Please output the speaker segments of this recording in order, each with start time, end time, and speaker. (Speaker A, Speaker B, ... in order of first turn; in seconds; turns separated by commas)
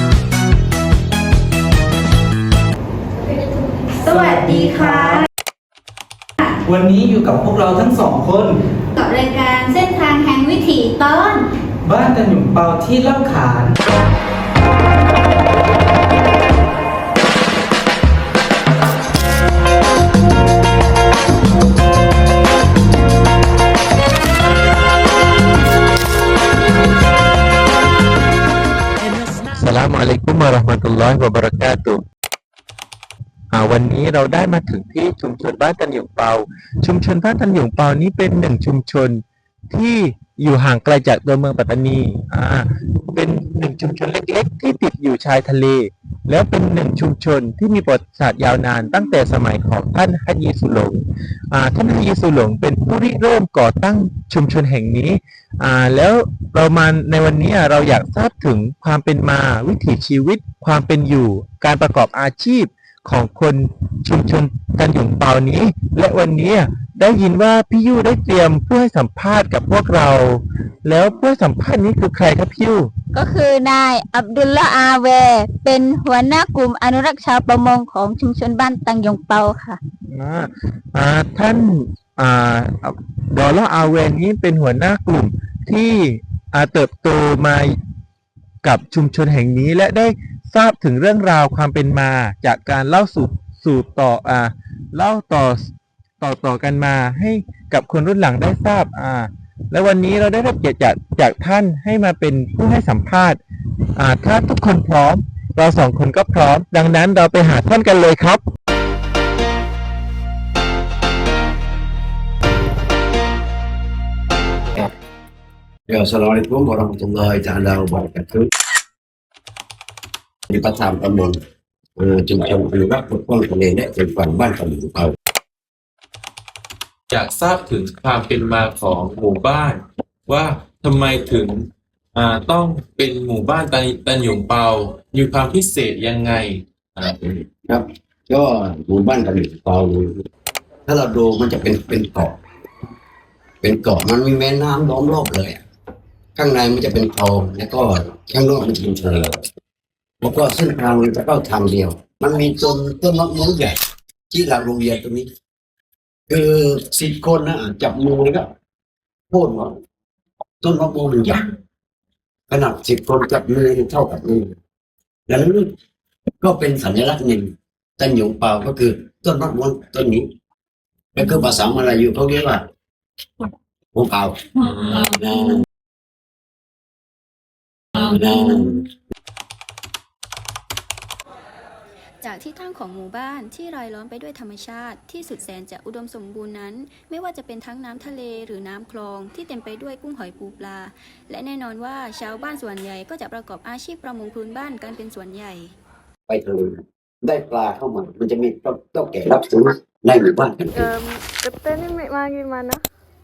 Speaker A: 3.3-5.2, Speaker B: 4.1-5.2, Speaker B: 6.6-8.6, Speaker A: 8.9-11.4, Speaker B: 11.8-13.7, Speaker C: 29.6-32.0, Speaker C: 33.5-51.0, Speaker C: 51.5-72.9, Speaker D: 73.1-79.8, Speaker C: 80.1-87.7, Speaker C: 88.6-95.7, Speaker C: 96.2-103.4, Speaker C: 104.0-108.4, Speaker E: 115.9-118.5, Speaker E: 120.5-121.4, Speaker E: 122.0-125.1, Speaker F: 128.2-129.4, Speaker F: 130.9-131.3, Speaker F: 132.2-134.2, Speaker F: 135.3-136.1, Speaker E: 137.0-140.1, Speaker E: 140.9-142.3, Speaker E: 143.6-145.6, Speaker E: 146.3-149.3, Speaker E: 150.2-153.8, Speaker E: 154.3-155.3, Speaker E: 156.3-158.5, Speaker E: 159.3-159.7, Speaker E: 160.6-161.5, Speaker E: 162.5-164.5, Speaker E: 165.3-165.7, Speaker E: 166.4-170.3, Speaker E: 171.1-172.6, Speaker E: 173.9-175.6, Speaker E: 177.9-178.9, Speaker G: 182.2-182.8, Speaker D: 182.3-190.8, Speaker G: 183.6-195.7, Speaker D: 192.1-192.8, Speaker D: 193.6-195.3, Speaker E: 196.3-200.9, Speaker H: 200.7-202.8